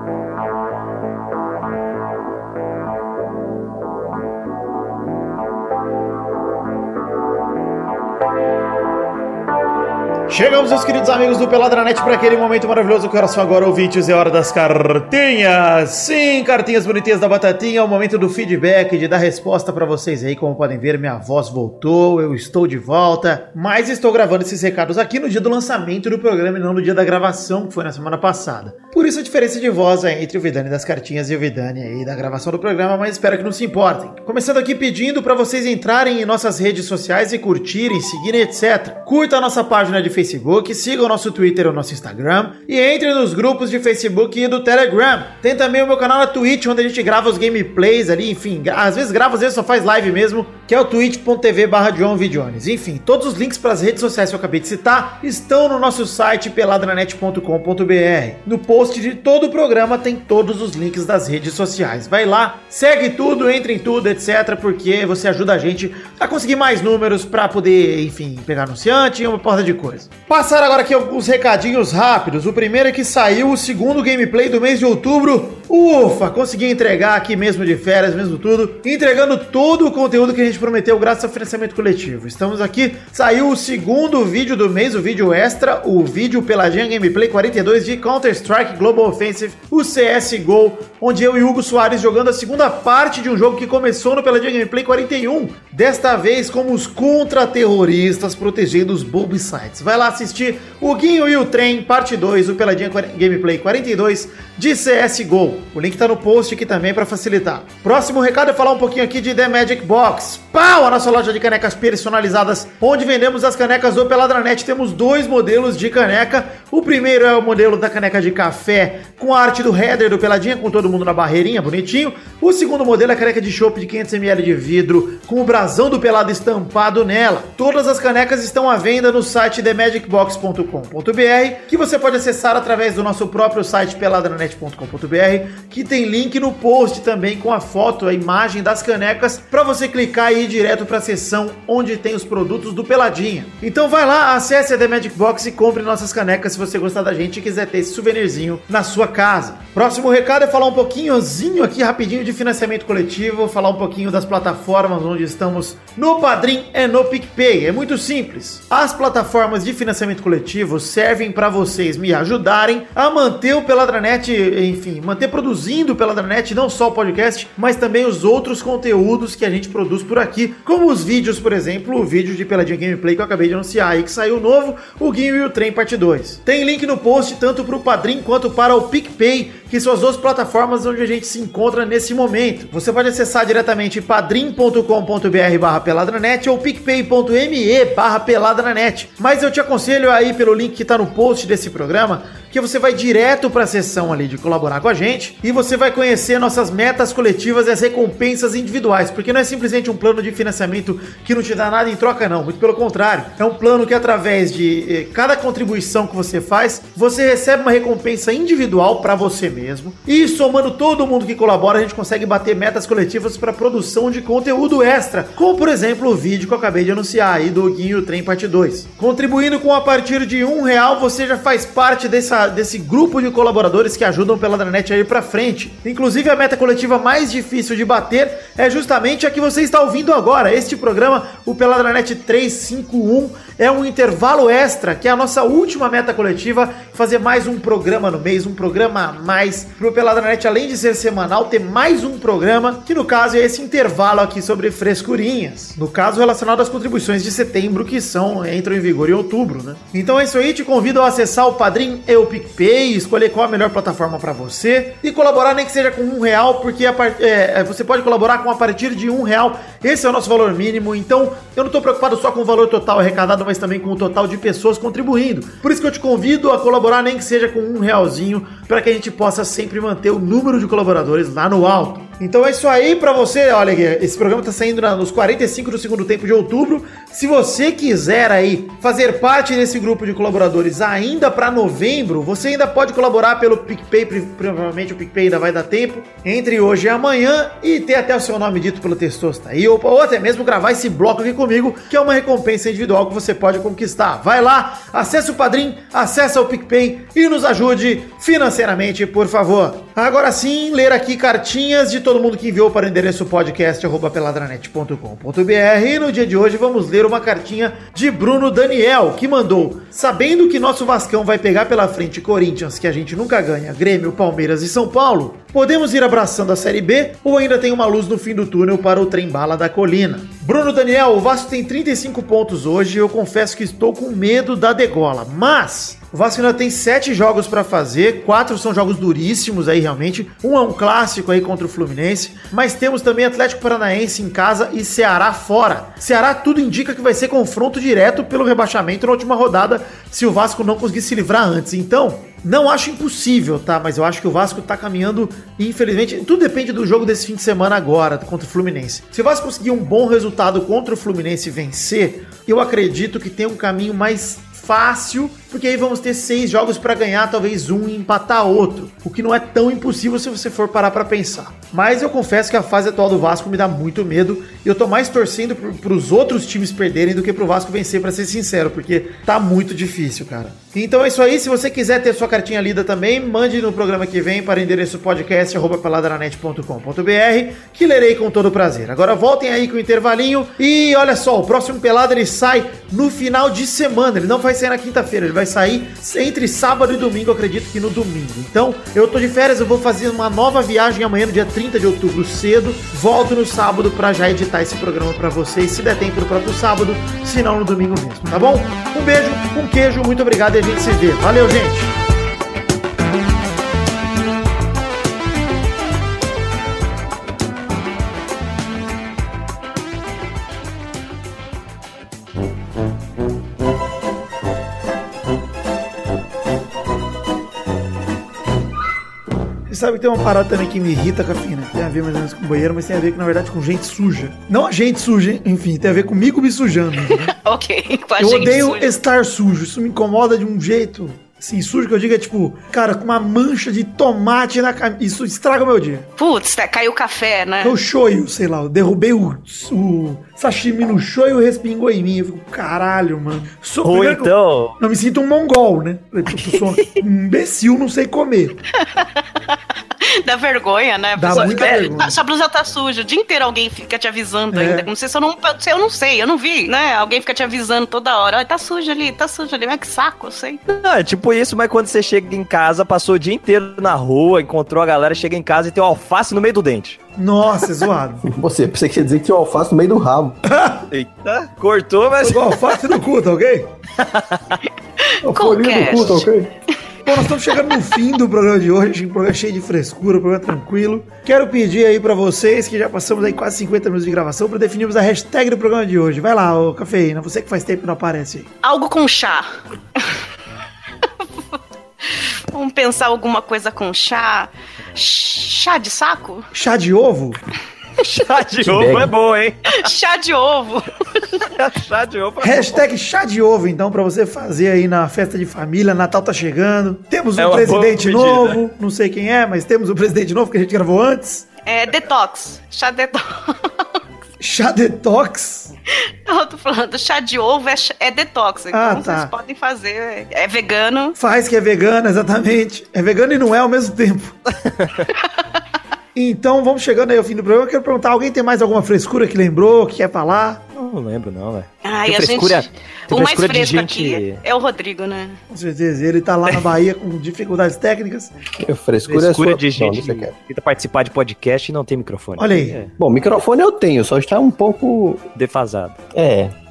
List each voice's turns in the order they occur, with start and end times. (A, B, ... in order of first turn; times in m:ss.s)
0:10.3-6:42.0 A
6:59.7-7:07.3 A
7:07.1-7:09.0 B
7:08.2-7:16.1 A
7:16.2-7:17.8 B
7:17.6-7:28.6 A
7:23.8-7:24.8 C
7:28.8-7:40.6 B
7:31.2-7:32.2 A
7:31.3-7:31.8 C
7:34.5-7:34.9 A
7:40.7-7:47.0 C
7:47.2-7:48.3 A
7:48.2-7:50.4 D
7:50.5-7:50.9 A
7:50.9-7:52.7 C
7:52.2-7:53.7 A
7:54.0-7:54.4 C
7:55.0-7:56.3 B
7:55.3-7:56.5 D
7:55.4-7:56.2 A
7:57.0-8:08.5 A
8:08.6-8:10.1 B
8:12.1-8:16.5 B
8:16.5-8:17.4 A
8:18.0-8:19.9 C
8:18.6-8:19.1 D
8:19.7-8:21.4 B
8:21.6-8:22.8 C
8:22.4-8:31.5 A
8:27.4-8:28.6 C
8:31.7-8:33.8 B
8:34.4-8:35.7 A
8:36.3-8:41.2 B
8:38.7-8:39.3 A
8:41.2-8:44.4 A
8:44.7-8:45.1 C
8:46.2-8:50.6 A
8:50.8-8:54.4 C
8:51.8-8:55.4 B
8:55.5-8:58.3 A
8:58.6-9:00.3 D
8:59.1-9:02.9 C
9:02.4-9:02.8 A
9:03.0-9:05.3 D
9:05.4-9:06.0 C
9:06.1-9:06.5 D